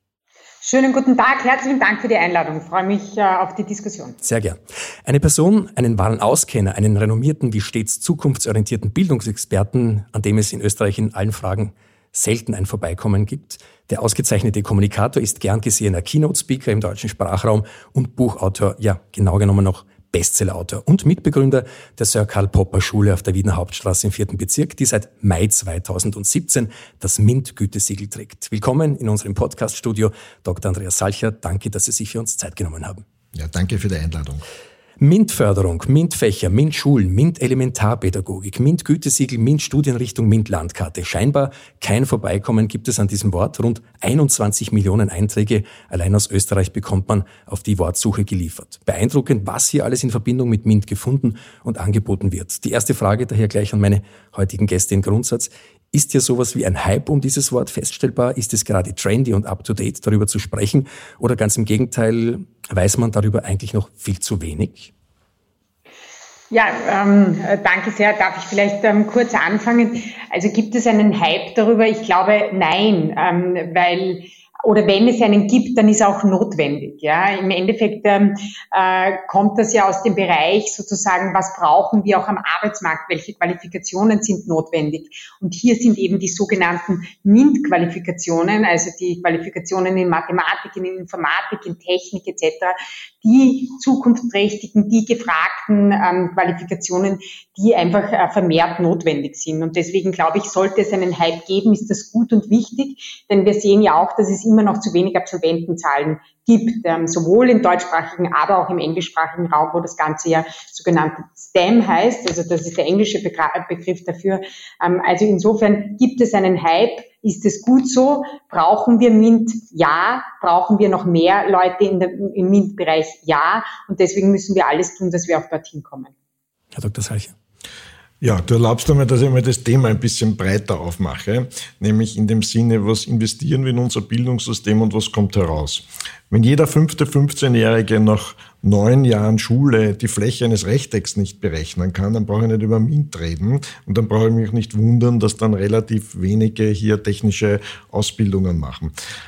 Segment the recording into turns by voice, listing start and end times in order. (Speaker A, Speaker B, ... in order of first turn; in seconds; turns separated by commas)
Speaker A: 0.6-4.2, Speaker B: 4.2-33.0, Speaker C: 33.3-34.4, Speaker B: 35.0-64.9, Speaker A: 66.5-126.1, Speaker B: 126.7-127.3, Speaker C: 128.2-148.9